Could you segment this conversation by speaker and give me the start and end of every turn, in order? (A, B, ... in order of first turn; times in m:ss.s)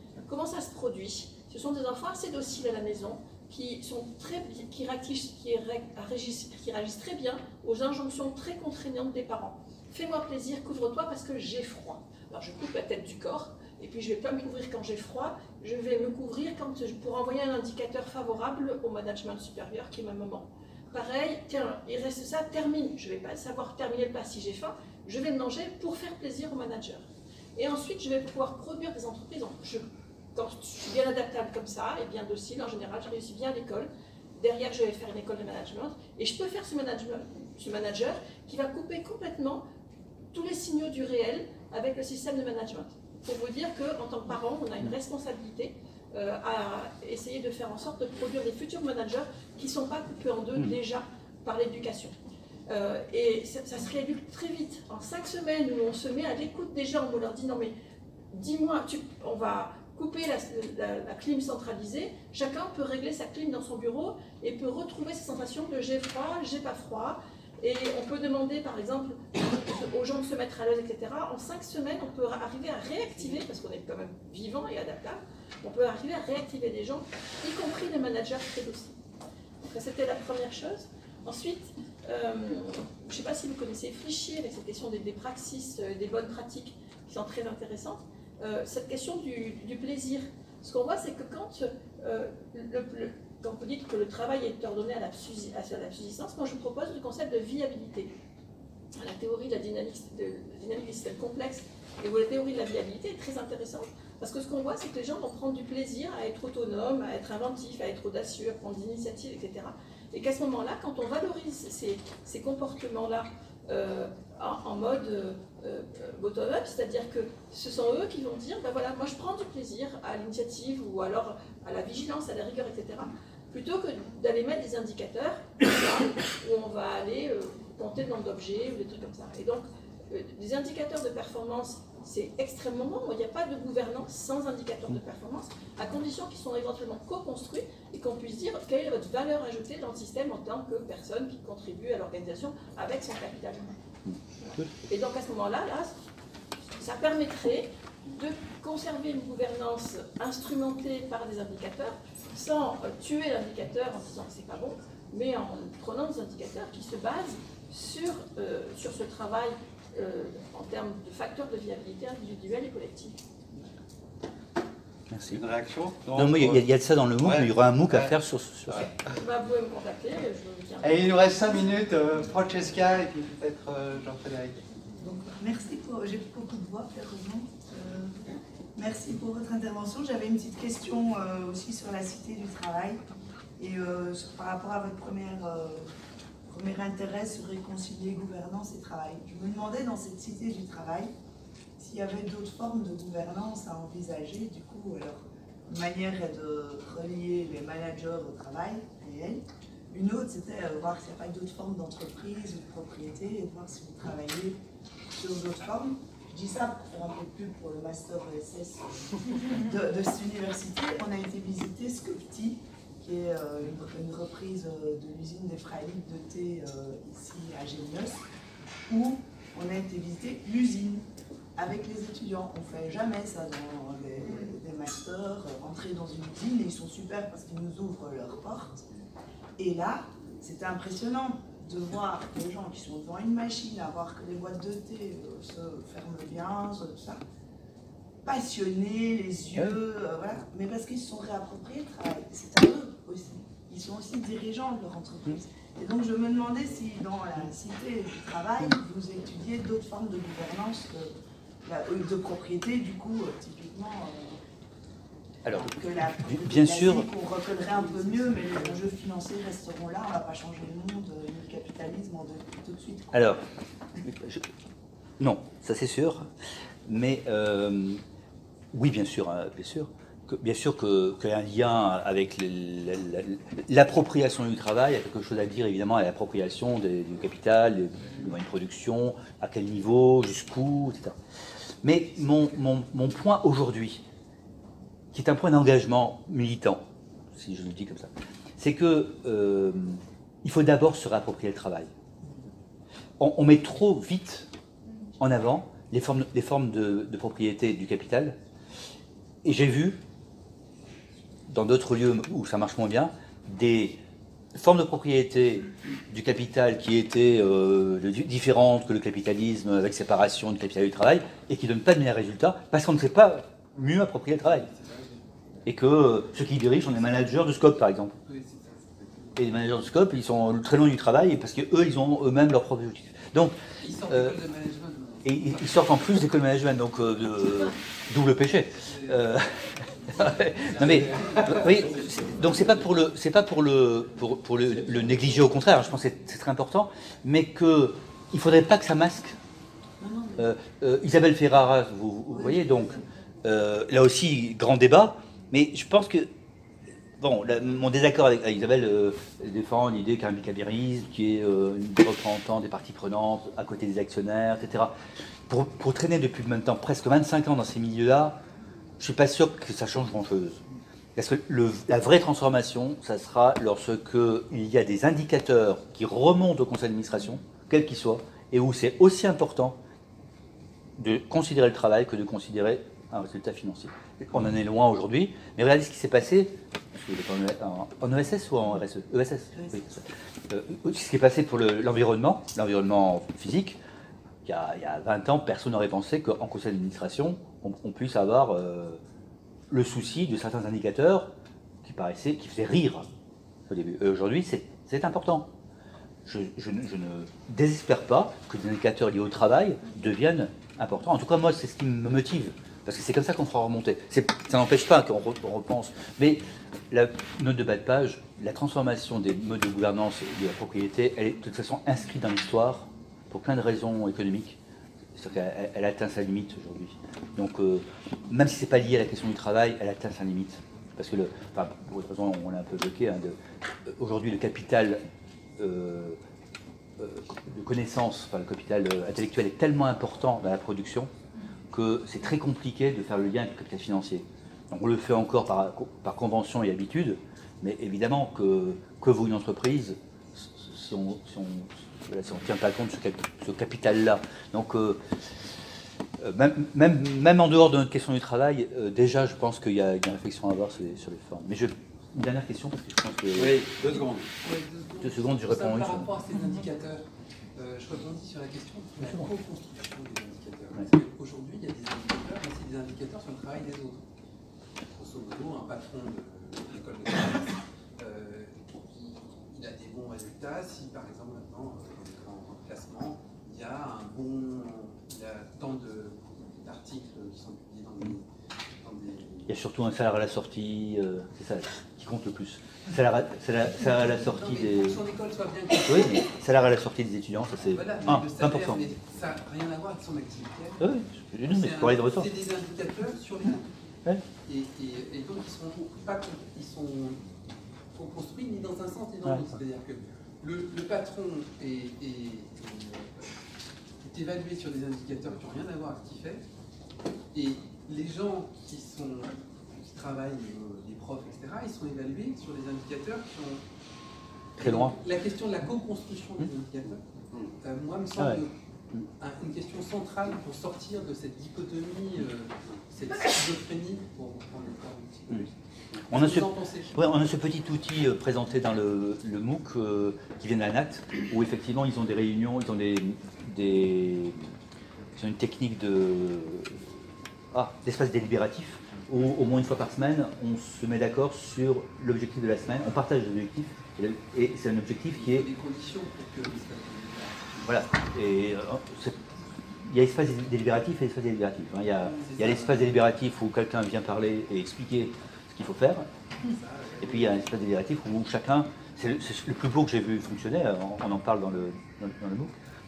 0:00.2-0:39.6 A
0:40.3-0:52.2 A
0:52.7-0:57.7 A
0:58.3-1:19.0 A
1:19.6-1:38.1 A
1:39.0-2:23.8 A
2:24.0-2:24.7 B
2:24.4-2:26.0 A
2:26.7-2:43.2 A
2:45.1-2:45.4 B
2:45.3-2:46.6 C
2:46.1-2:48.9 B
2:47.2-2:48.2 C
2:48.7-2:49.1 C
2:49.0-2:51.2 A
2:50.8-2:54.7 C
2:55.0-2:58.2 D
2:58.7-3:03.0 D
3:03.6-3:05.9 D
3:06.5-3:11.1 D
3:11.8-3:24.6 D
3:25.2-3:38.2 D
3:38.9-3:41.0 D
3:41.6-3:48.8 D
3:49.6-3:57.2 D
3:58.2-4:11.1 D
4:11.6-4:14.4 D
4:15.4-4:17.1 B
4:15.5-4:23.1 D
4:23.1-4:23.4 B
4:24.0-4:24.5 B
4:25.2-4:26.3 B
4:26.8-4:28.0 B
4:28.7-4:41.2 B
4:41.8-4:44.0 B
4:45.1-4:51.9 B
4:53.2-4:54.5 B
4:55.2-4:58.4 B
4:59.4-5:00.0 B
5:01.5-5:04.0 B
5:04.5-5:14.7 B
5:14.4-5:15.4 E
5:15.6-5:18.1 B
5:17.1-5:17.4 E
5:18.2-5:19.8 E
5:19.4-5:24.4 B
5:23.8-5:26.1 E
5:25.2-5:29.5 B
5:28.8-5:29.4 E
5:30.1-5:33.0 E
5:30.1-5:39.4 B
5:40.0-5:40.5 D
5:40.4-5:46.3 B
5:47.2-5:54.9 B
5:55.5-5:58.4 B
5:59.0-6:00.6 B
6:01.2-6:09.8 B
6:11.0-6:23.8 B
6:24.4-6:29.0 B
6:29.7-6:31.3 B
6:31.8-6:33.1 B
6:33.7-6:35.5 B
6:36.2-6:54.6 B
6:55.2-7:05.0 B
7:05.6-7:06.2 B
7:07.0-7:11.1 B
7:11.7-7:25.0 B
7:26.2-7:33.7 B
7:33.3-7:34.2 C
7:34.4-7:37.0 E
7:35.0-7:36.1 B
7:37.6-7:44.0 E
7:39.0-7:39.3 B
7:44.9-7:59.5 E
7:59.5-8:05.0 B
8:03.8-8:06.3 E
8:05.8-8:08.8 B
8:07.6-8:13.6 E
8:10.8-8:12.3 B
8:14.4-8:17.2 E
8:17.9-8:23.3 E
8:19.2-8:19.5 B
8:24.0-8:26.4 E
8:27.3-8:33.6 E
8:34.6-8:35.0 B
8:34.6-8:38.5 E
8:39.2-8:45.5 E
8:46.1-8:47.1 E
8:46.1-8:54.4 B
8:55.2-8:56.8 B
8:57.5-9:05.5 B
9:05.1-9:07.8 E
9:07.6-9:09.2 B
9:09.8-9:16.1 B
9:12.0-9:13.1 E
9:16.4-9:17.4 E
9:17.0-9:22.5 B